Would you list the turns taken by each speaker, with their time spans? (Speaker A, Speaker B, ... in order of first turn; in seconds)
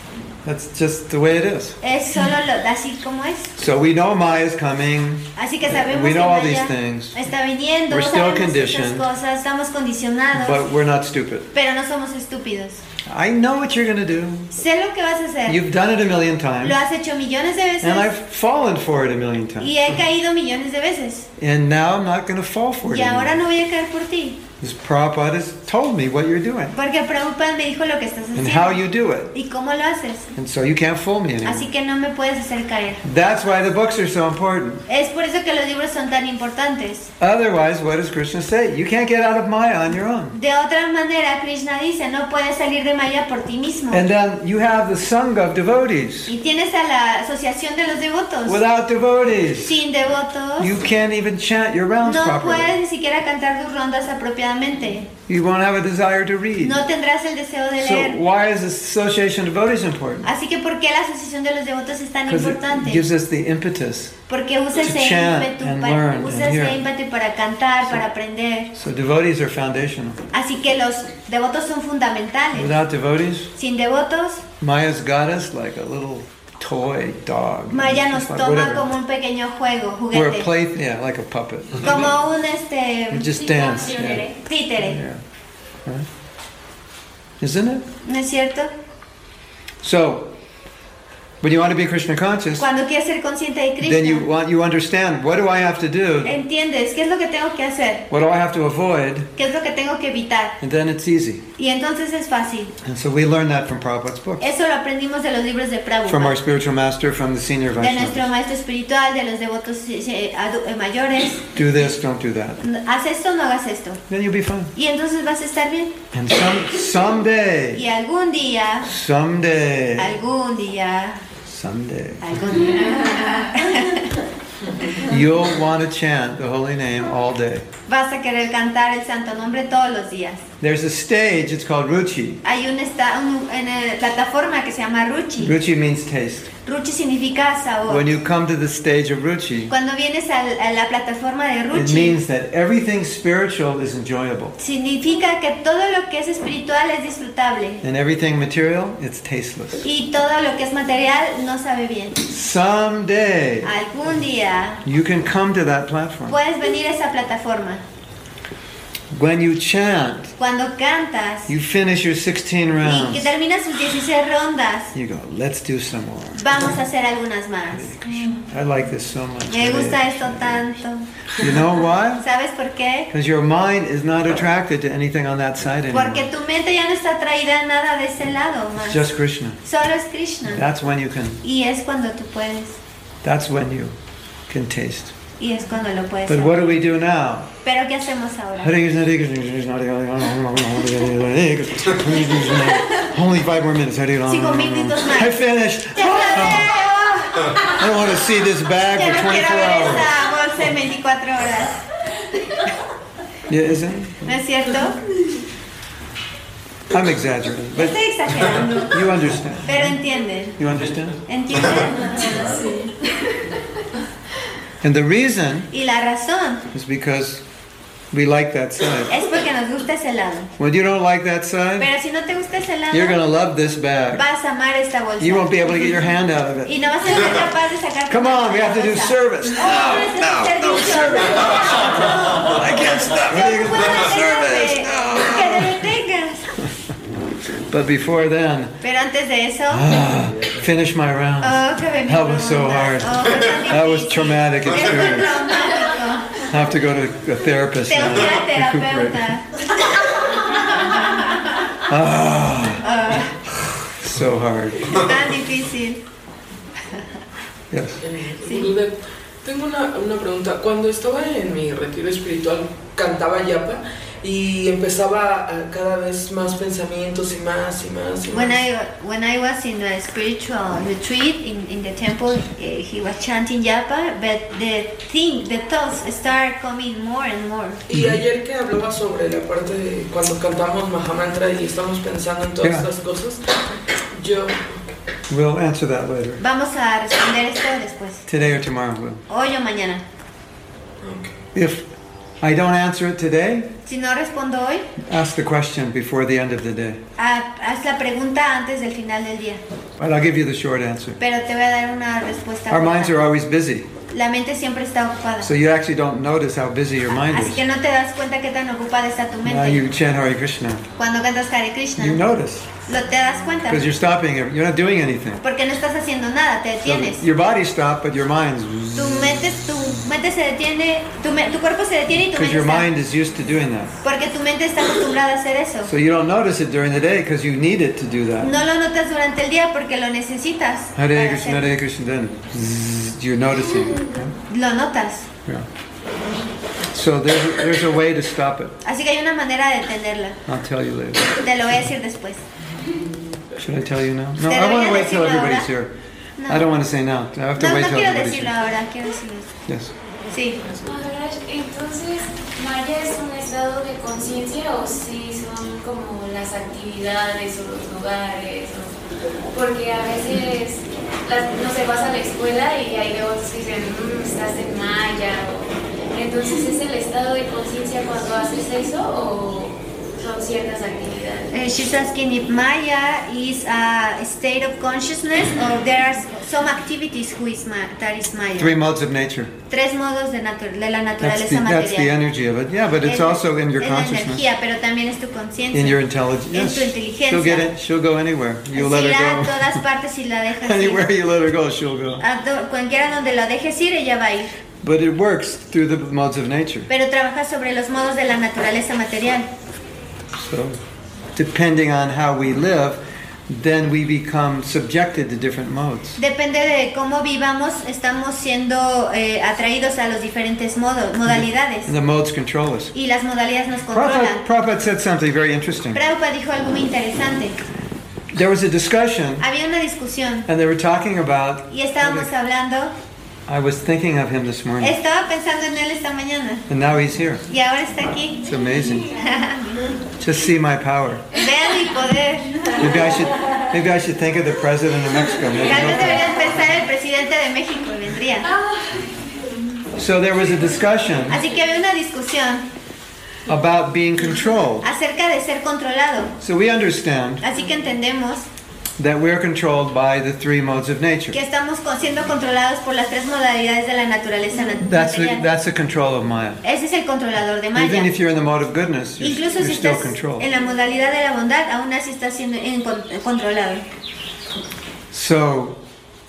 Speaker A: 0.5-1.8, 3.6-7.2, 7.9-9.1, 10.3-11.5, 13.1-14.5, 15.5-16.8, 17.8-19.7, 21.4-23.4, 24.6-26.8, 28.4-29.3, 30.4-31.7, 33.0-34.8, 37.2-40.4, 43.9-46.3, 48.5-49.8, 50.6-52.7, 55.3-56.8, 57.8-60.3, 62.3-64.2, 64.8-66.8, 68.7-70.2, 72.5-73.5, 74.6-78.8, 80.1-82.1, 83.1-85.2, 87.4-87.8, 89.8-90.3, 91.4-92.7, 93.8-96.4, 98.1-99.3, 100.6-101.5, 102.8-104.5, 106.1-108.3, 111.5-112.6, 114.1-114.7, 116.1-117.8, 118.8-120.2, 121.5-122.4, 125.0-127.7, 130.6-132.4, 135.4-136.5, 137.9-139.7, 141.7-144.6, 147.8-149.9, 152.3-153.7, 154.8-156.4, 159.1-160.3, 161.5-163.3, 164.9-166.6, 167.7-170.6, 171.4-172.2, 173.1-176.3, 178.8-179.6, 180.5-181.4, 183.2-183.9, 184.5-185.1, 186.3-187.5, 188.6-196.8, 197.6-200.1, 203.5-204.3, 206.9-208.0, 208.9-210.0, 210.6-211.2, 214.8-215.7, 216.7-217.4, 218.1-219.2, 220.6-221.9, 222.9-224.2, 225.2-226.8, 228.1-235.8, 237.7-238.8, 239.7-245.3, 246.4-249.3, 251.8-252.9, 254.0-255.1, 257.7-258.0, 277.9-278.2, 282.6-282.9, 285.3-286.4, 288.3-289.2, 291.5-291.9, 292.4-293.7, 295.0-297.0, 300.0-301.2, 302.7-303.9, 305.4-307.6, 309.4-310.9, 312.0-312.7, 313.7-315.4, 316.8-319.5, 322.3-324.0, 325.9-328.5, 330.9-334.4, 336.9-338.8, 340.5-341.4, 343.6-345.9, 346.5-348.5, 349.7-349.9, 378.6-379.5, 381.2-384.4, 385.7-389.8, 390.6-392.2, 394.8-396.9, 400.4-400.8, 401.4-406.2, 411.3-412.9, 413.9-416.0, 418.3-419.4, 420.5-422.3, 423.5-425.0, 426.7-427.4, 428.5-429.1, 430.2-431.3, 432.8-436.4, 440.0-441.4, 443.5-444.9, 446.4-447.4, 449.0-451.4, 454.8-456.6, 457.7-460.5, 465.1-465.8
Speaker B: 1.8-3.5, 5.4-10.6, 11.5-12.8, 14.5-15.6, 16.6-18.1, 19.6-21.3, 22.9-24.4, 26.7-30.3, 31.4-33.0, 34.9-37.1, 40.3-44.0, 46.3-48.6, 49.6-50.8, 52.0-55.1, 56.6-58.2, 60.2-63.0, 64.3-68.7, 70.3-72.8, 73.5-74.5, 77.7-80.5, 81.8-85.0, 88.0-88.7, 92.6-94.3, 96.2-98.1, 99.4-100.6, 101.6-102.7, 104.4-106.4, 107.8-111.5, 112.6-114.0, 114.8-116.0, 117.7-118.9, 120.0-121.2, 122.2-124.2, 127.9-130.4, 132.4-135.6, 136.6-138.1, 139.7-142.2, 144.6-147.8, 149.8-152.2, 153.6-154.8, 156.3-157.8, 160.4-161.5, 162.8-164.9, 166.3-167.9, 169.5-171.1, 172.2-173.1, 175.9-179.0, 179.6-180.7, 181.4-182.8, 185.4-186.6, 187.6-188.7, 192.4-192.8, 194.3-197.8, 198.9-201.8, 204.2-205.0, 207.8-209.0, 209.6-210.6, 211.3-212.6, 215.7-216.7, 219.1-220.5, 221.8-223.2, 224.1-226.0, 226.7-236.6, 238.8-239.9, 241.4-246.5, 247.9-251.6, 252.8-253.3, 254.9-256.0, 258.5-258.7, 268.3-277.8, 286.4-288.2, 289.3-290.0, 293.9-294.9, 297.2-299.6, 301.2-303.3, 304.1-305.5, 307.2-309.8, 311.0-312.2, 312.9-313.9, 315.4-317.3, 319.0-322.9, 324.0-325.9, 328.4-331.7, 334.5-335.3, 338.8-340.4, 341.4-342.4, 344.5-345.7, 346.4-346.7, 347.6-349.5, 350.3-350.6, 371.5-378.8, 379.7-382.1, 383.0-387.7, 388.7-391.1, 392.2-394.5, 396.9-399.5, 406.2-411.9, 412.9-414.4, 415.9-417.6, 419.4-420.5, 421.7-422.9, 424.8-426.7, 427.5-428.5, 429.0-429.9, 431.3-433.1, 435.6-438.5, 441.3-442.7, 444.8-446.4, 447.4-448.5, 451.3-455.5, 456.6-458.1, 459.2-463.9
Speaker C: 83.3-84.2, 350.8-358.9, 359.5-371.5
Speaker D: 258.0-268.6, 277.9-283.4, 284.1-284.8, 291.0-291.4